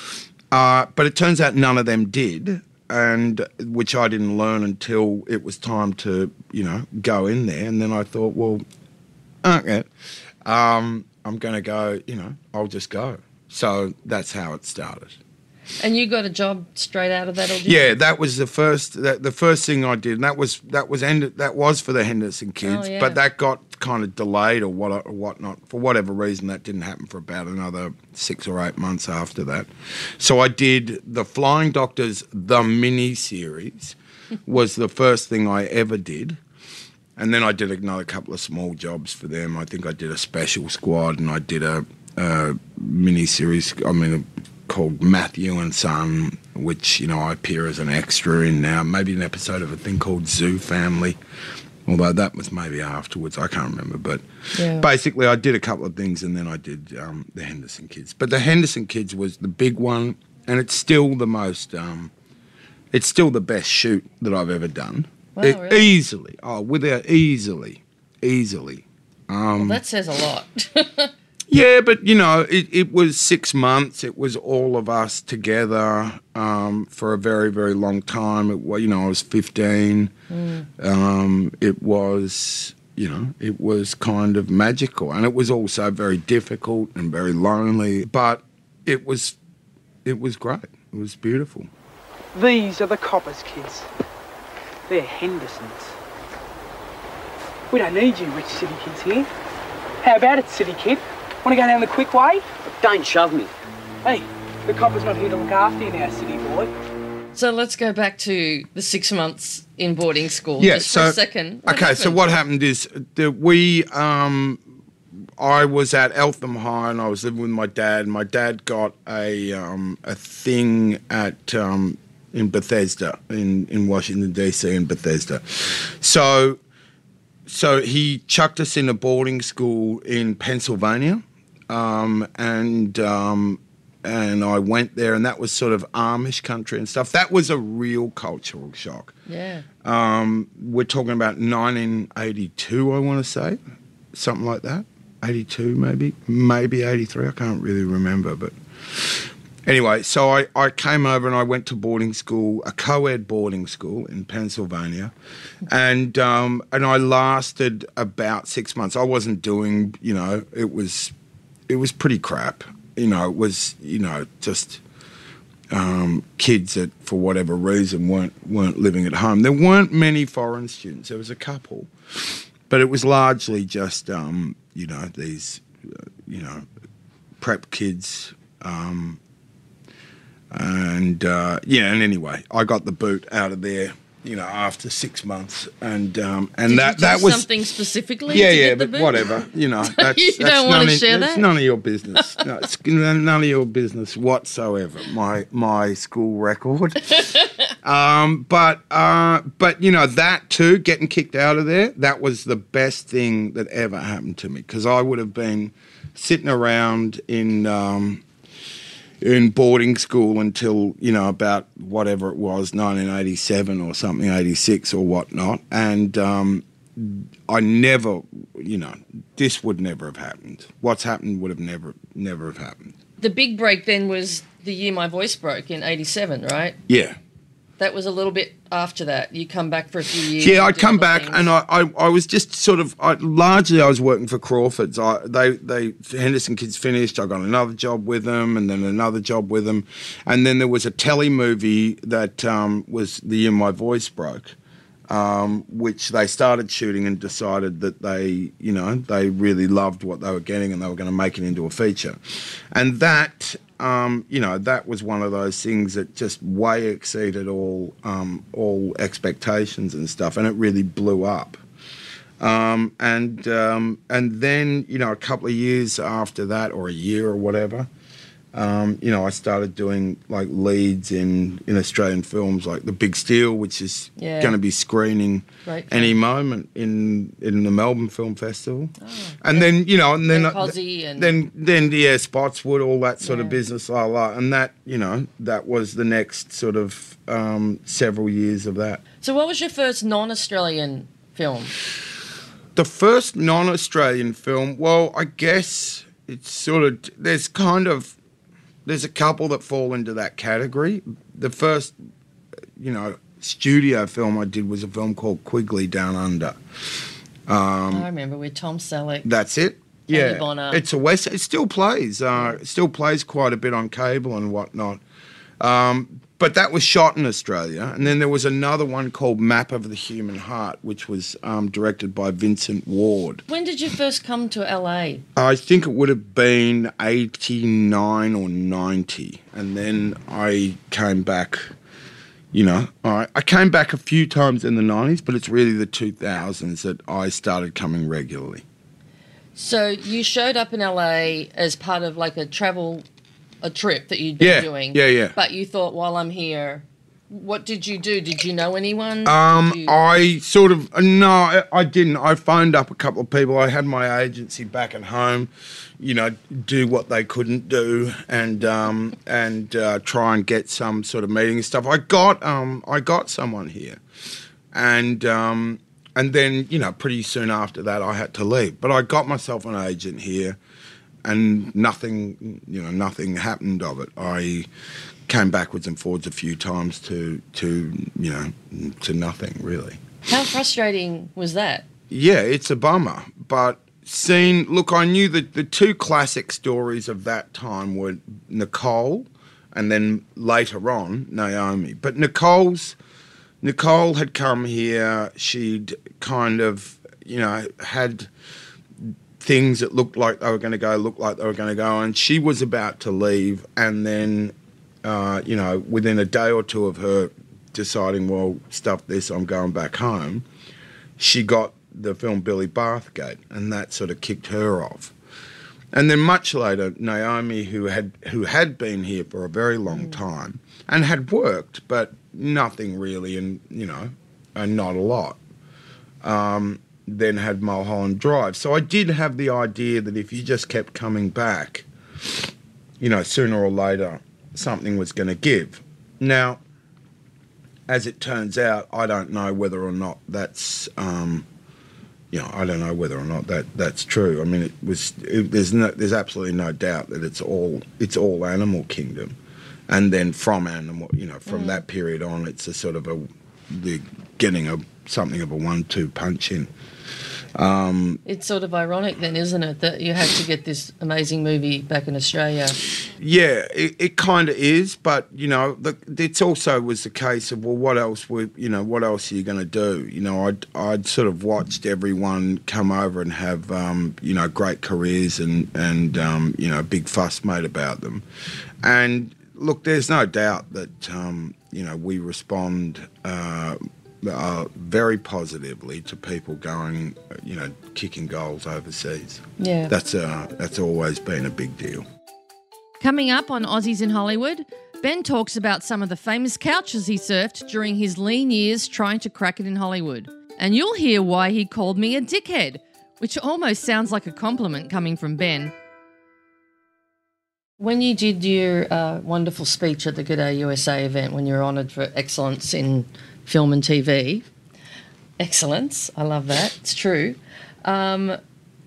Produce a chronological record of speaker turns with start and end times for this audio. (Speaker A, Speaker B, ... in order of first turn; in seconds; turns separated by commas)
Speaker A: 0.5-8.6, Speaker A: 9.4-9.9, Speaker A: 10.4-15.2, Speaker B: 15.8-17.8, Speaker A: 17.6-36.4, Speaker B: 22.6-23.2, Speaker A: 37.2-51.2, Speaker A: 51.9-62.1, Speaker B: 54.5-54.9, Speaker A: 62.9-69.8, Speaker B: 65.3-65.9, Speaker B: 69.6-71.1, Speaker A: 71.5-80.1, Speaker B: 80.3-80.7, Speaker A: 80.8-89.4, Speaker A: 90.0-91.7, Speaker C: 92.3-93.9, Speaker C: 94.9-95.9, Speaker C: 97.7-99.3, Speaker C: 100.0-103.5, Speaker C: 104.0-106.7, Speaker B: 107.3-112.2, Speaker A: 110.6-114.6, Speaker A: 115.4-126.6, Speaker A: 127.5-139.1, Speaker B: 139.3-139.6, Speaker A: 139.8-143.6, Speaker A: 144.1-155.1, Speaker A: 155.7-161.1, Speaker A: 161.7-164.8, Speaker A: 165.7-176.7, Speaker A: 177.4-179.2, Speaker A: 180.5-187.5, Speaker B: 186.7-189.3, Speaker A: 188.3-208.2, Speaker B: 189.8-191.5, Speaker A: 209.2-222.9, Speaker B: 223.2-226.8, Speaker A: 226.9-227.2, Speaker B: 227.8-231.5, Speaker A: 230.4-244.6, Speaker A: 245.1-252.2, Speaker A: 252.7-261.6, Speaker A: 262.4-267.9, Speaker A: 268.5-289.0, Speaker B: 274.2-274.6, Speaker B: 275.6-276.1, Speaker B: 279.0-279.7, Speaker B: 280.3-281.3, Speaker B: 283.2-283.6, Speaker B: 289.2-291.7, Speaker A: 292.7-298.1, Speaker A: 298.9-301.9, Speaker A: 302.8-306.6, Speaker A: 307.5-308.1, Speaker B: 307.9-309.3, Speaker A: 309.2-315.0, Speaker B: 310.1-310.8, Speaker A: 315.6-323.4, Speaker B: 323.5-325.2, Speaker A: 325.3-331.7, Speaker A: 332.5-338.6, Speaker B: 339.6-343.0, Speaker B: 343.6-349.9, Speaker A: 344.4-345.4, Speaker A: 349.2-364.0, Speaker A: 364.7-370.6, Speaker A: 371.2-374.7, Speaker A: 375.3-380.0, Speaker B: 380.3-381.9, Speaker A: 382.1-393.0, Speaker A: 393.6-398.3, Speaker A: 399.4-410.4, Speaker A: 411.2-415.1, Speaker A: 415.9-425.4, Speaker A: 426.2-431.9, Speaker A: 433.0-436.6, Speaker A: 437.9-441.4, Speaker A: 442.3-449.4, Speaker A: 449.9-456.7, Speaker B: 451.5-451.8, Speaker A: 457.5-458.2, Speaker B: 458.2-462.8, Speaker A: 463.0-478.2, Speaker A: 478.8-492.0, Speaker B: 489.6-489.9, Speaker B: 493.0-505.7, Speaker B: 507.8-514.4, Speaker B: 515.4-518.4